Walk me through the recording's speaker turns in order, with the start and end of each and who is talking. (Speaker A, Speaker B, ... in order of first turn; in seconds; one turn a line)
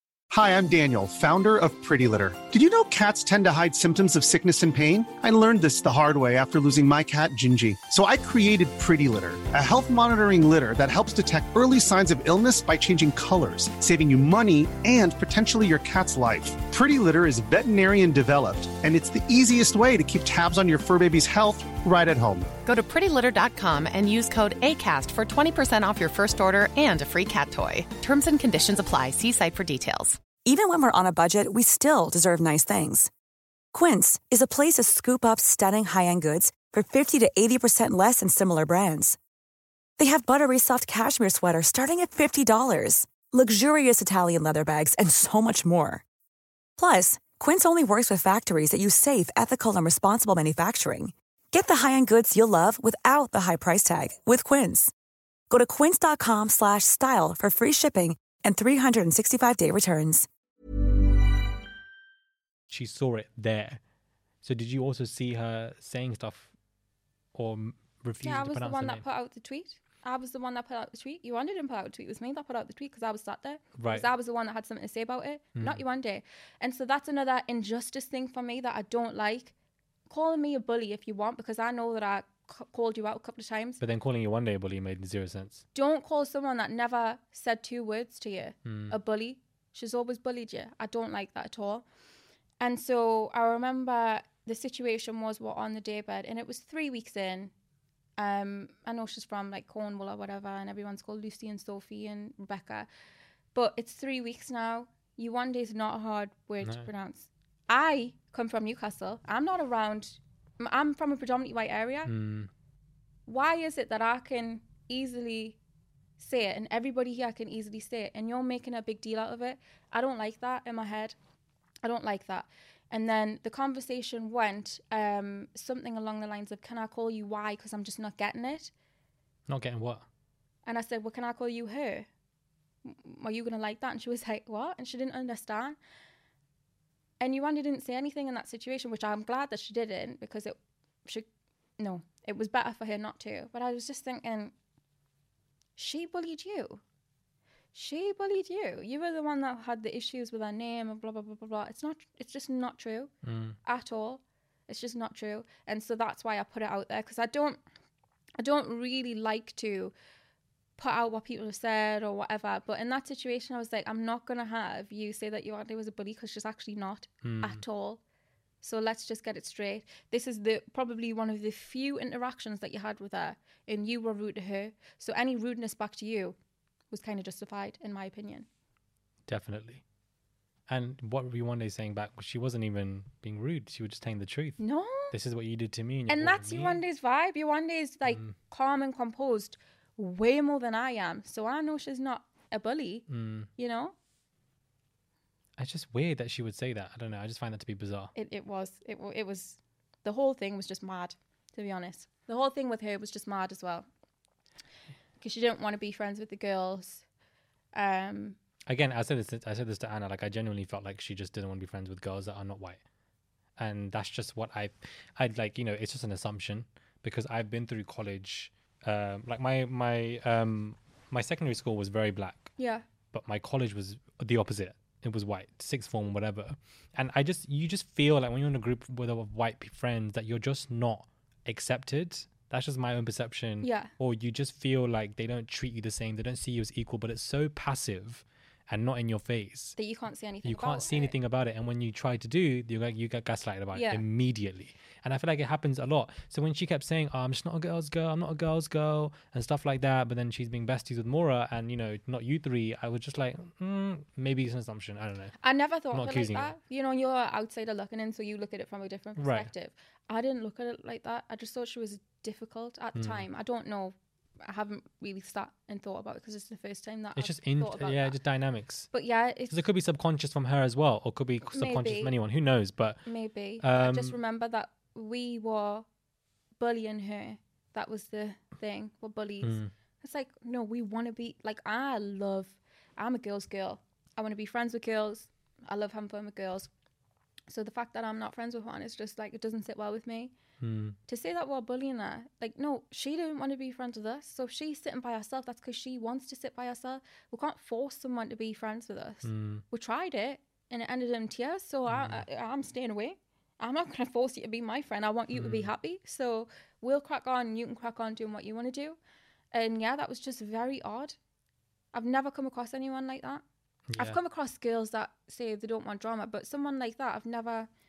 Speaker A: 0.3-22.5
Speaker B: 22.6-30.2
Speaker C: 30.4-33.1
Speaker C: 33.7-39.2
Speaker C: 40.0-46.0
Speaker C: 46.8-54.9
Speaker C: 55.5-60.3
Speaker D: 62.7-63.8
Speaker D: 64.4-66.5
Speaker D: 67.3-69.0
Speaker E: 68.2-79.5
Speaker D: 73.8-74.1
Speaker D: 75.6-75.8
Speaker E: 80.1-83.8
Speaker D: 83.8-85.6
Speaker E: 85.7-91.8
Speaker D: 88.7-89.0
Speaker E: 92.6-97.5
Speaker E: 98.2-102.9
Speaker E: 103.5-112.1
Speaker D: 106.6-106.9
Speaker D: 112.1-112.5
Speaker E: 113.3-115.6
Speaker E: 116.2-121.2
Speaker E: 121.8-128.7
Speaker D: 129.5-130.1
Speaker E: 130.7-132.1
Speaker E: 132.8-135.8
Speaker E: 137.2-141.3
Speaker E: 141.8-144.5
Speaker E: 145.8-146.8
Speaker E: 147.7-153.1
Speaker D: 153.2-153.6
Speaker E: 153.7-157.6
Speaker E: 158.4-159.9
Speaker E: 160.8-168.0
Speaker D: 167.2-167.6
Speaker E: 168.6-176.4
Speaker E: 176.9-178.5
Speaker D: 179.3-179.8
Speaker D: 180.7-184.6
Speaker E: 184.6-185.1
Speaker D: 185.1-186.8
Speaker E: 186.1-193.1
Speaker D: 188.1-188.3
Speaker D: 193.1-193.5
Speaker E: 193.6-193.9
Speaker D: 195.6-198.1
Speaker E: 198.2-203.9
Speaker E: 205.2-207.0
Speaker E: 207.8-208.4
Speaker D: 208.7-212.8
Speaker D: 213.6-222.5
Speaker E: 222.6-222.8
Speaker D: 223.1-239.8
Speaker E: 233.6-233.9
Speaker E: 239.8-241.1
Speaker D: 240.4-255.4
Speaker E: 243.7-244.0
Speaker E: 255.4-268.2
Speaker D: 255.9-256.5
Speaker D: 259.2-259.5
Speaker D: 262.9-263.2
Speaker D: 267.2-268.9
Speaker E: 268.9-269.6
Speaker D: 269.5-273.0
Speaker E: 271.5-272.1
Speaker E: 273.1-275.9
Speaker D: 273.6-274.2
Speaker E: 276.6-286.7
Speaker D: 279.4-279.7
Speaker E: 287.5-290.3
Speaker D: 290.6-291.0
Speaker E: 291.1-309.0
Speaker D: 299.2-299.6
Speaker D: 301.9-302.2
Speaker D: 305.3-305.7
Speaker E: 309.5-311.2
Speaker E: 311.9-313.4
Speaker D: 313.9-314.2
Speaker E: 314.0-317.7